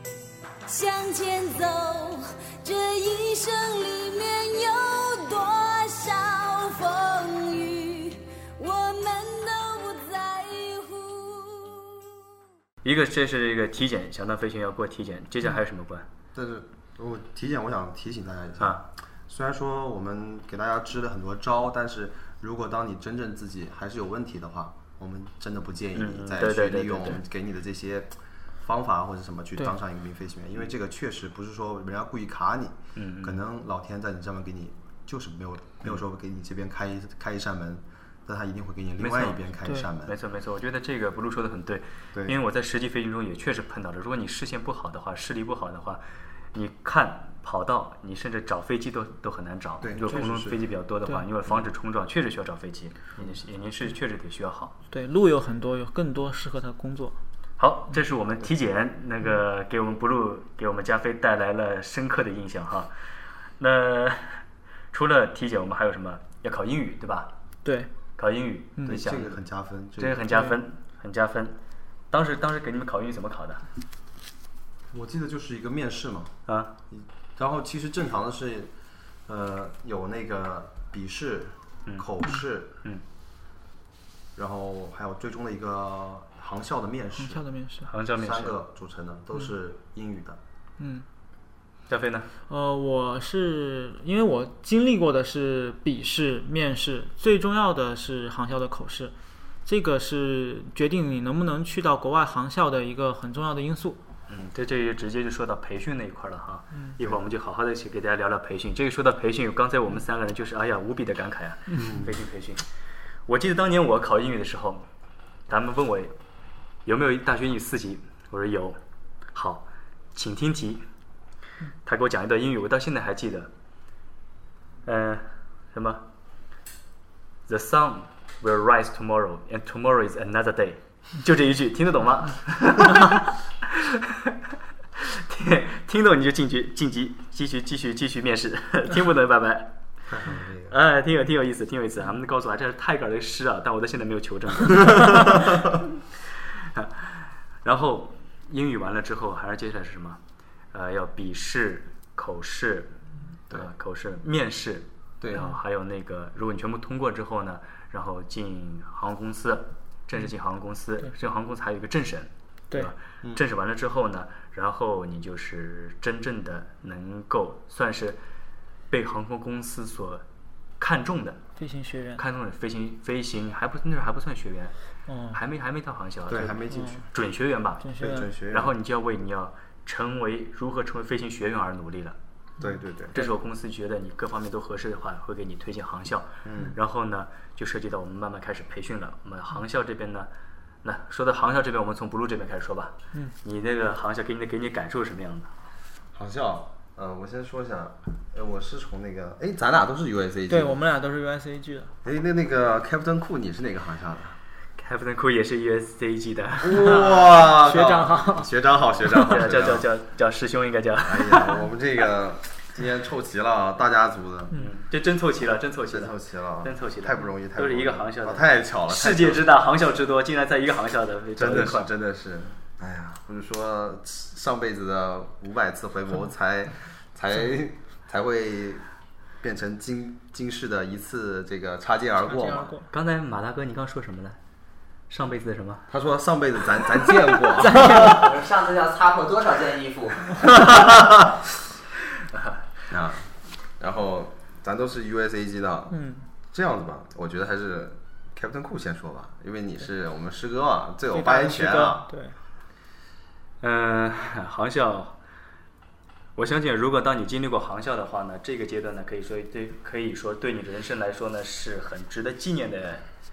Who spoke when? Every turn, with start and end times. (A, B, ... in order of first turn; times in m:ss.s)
0:00.7-0:12.0 A
0:12.8-0:16.1 B
0:16.4-0:40.2 C
0:26.0-0:27.2 B
0:33.0-0:33.4 B
0:39.0-0:39.5 B
0:40.0-0:46.0 B
0:46.5-0:54.8 B
0:49.8-0:50.6 C
0:54.9-0:57.2 D
0:57.6-1:02.9 B
1:03.6-1:07.3 B
1:07.6-1:07.9 D
1:08.2-1:09.4 B
1:08.9-1:10.3 C
1:10.0-1:11.6 B
1:12.1-1:13.6 B
1:14.9-1:16.3 C
1:16.5-1:16.7 B
1:16.9-1:18.7 C
1:19.3-1:22.7 C
1:24.4-1:27.4 C
1:27.2-1:27.9 D
1:27.9-1:28.6 B
1:28.2-1:30.4 C
1:30.8-1:31.0 D
1:31.9-1:32.3 B
1:32.5-1:39.1 D
1:39.7-1:44.0 D
1:44.3-1:52.6 B
1:51.8-1:52.2 C
1:53.3-1:54.9 B
1:55.5-1:56.1 B
1:56.8-1:58.8 B
1:59.3-2:00.9 B
2:01.8-2:03.5 B
2:04.8-2:06.0 B
2:07.5-2:14.3 B
2:15.0-2:19.7 B
2:20.1-2:20.8 C
2:20.7-2:25.7 B
2:25.3-2:25.6 C
2:26.7-2:30.2 B
2:30.7-2:32.9 B
2:33.5-2:48.2 B
2:48.9-2:50.2 B
2:50.8-2:51.4 B
2:51.6-2:52.2 D
2:52.2-2:54.7 B
2:55.1-2:55.4 D
2:55.3-2:56.6 B
2:56.3-2:57.0 C
2:56.7-2:57.0 D
2:57.1-3:02.2 B
2:57.8-2:58.3 D
2:58.0-2:58.7 C
3:02.6-3:03.2 C
3:03.1-3:10.3 B
3:06.4-3:06.8 C
3:10.8-3:15.5 B
3:16.1-3:20.8 C
3:20.5-3:21.9 D
3:22.0-3:24.4 C
3:24.8-3:27.2 B
3:26.6-3:29.9 C
3:27.5-3:28.5 D
3:29.2-3:31.7 B
3:31.0-3:34.5 C
3:34.6-3:41.9 B
3:35.9-3:39.5 C
3:41.4-3:48.9 C
3:49.4-3:52.7 C
3:52.2-3:52.9 D
3:52.9-3:54.4 B
3:55.1-3:55.9 B
3:55.9-3:58.1 C
3:57.6-3:58.1 D
3:57.8-4:00.8 E
4:00.5-4:01.2 C
4:02.9-4:06.0 C
4:05.9-4:06.2 D
4:06.5-4:12.1 C
4:11.1-4:12.4 D
4:13.6-4:15.2 B
4:16.4-4:23.0 B